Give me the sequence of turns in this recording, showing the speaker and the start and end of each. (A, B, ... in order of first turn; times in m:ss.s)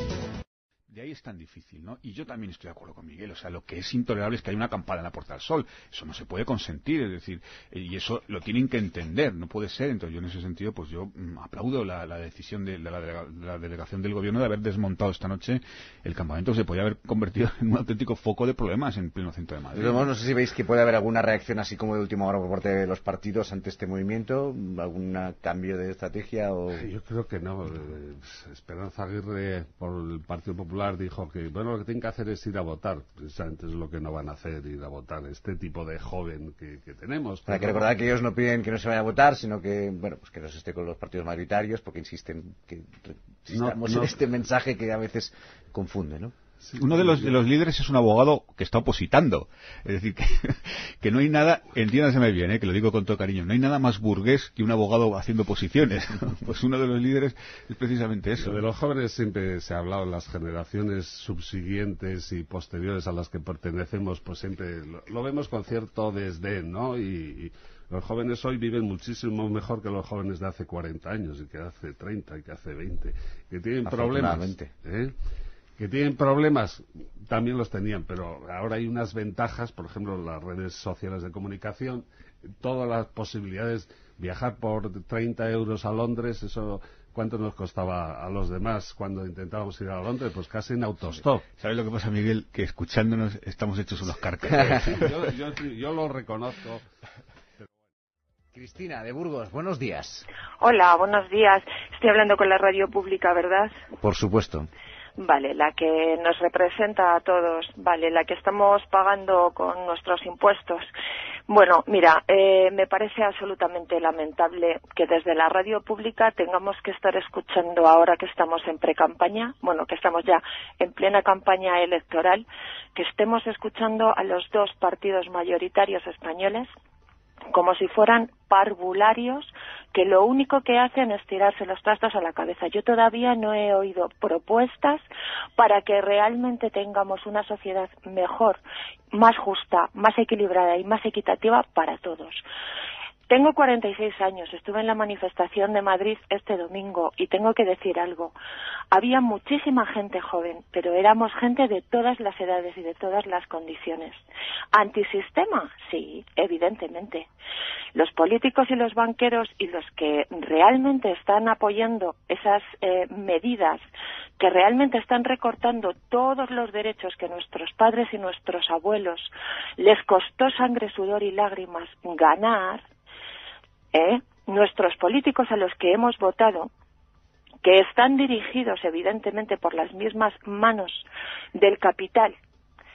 0:00.9-0:20.1 A
0:19.7-0:26.9 B
0:26.7-0:37.9 C
0:37.5-0:46.3 B
0:43.5-0:44.2 C
0:46.6-0:47.3 C
0:46.7-0:58.6 A
0:58.4-1:15.1 C
1:13.8-1:14.7 B
1:15.8-1:22.0 C
1:22.6-1:31.4 C
1:31.6-1:35.1 A
1:34.7-1:36.8 C
1:38.5-1:40.3 B
1:40.6-1:43.8 D
1:44.0-1:44.7 B
1:45.2-1:50.9 D
1:51.5-2:06.7 D
2:07.5-2:15.0 D
2:15.6-2:18.6 D
2:19.1-2:22.4 D
2:23.3-2:28.4 D
2:28.9-2:34.2 D
2:34.7-2:37.3 D
2:37.9-2:43.8 D
2:44.4-2:52.8 D
2:53.9-2:56.7 D
2:57.6-3:02.4 D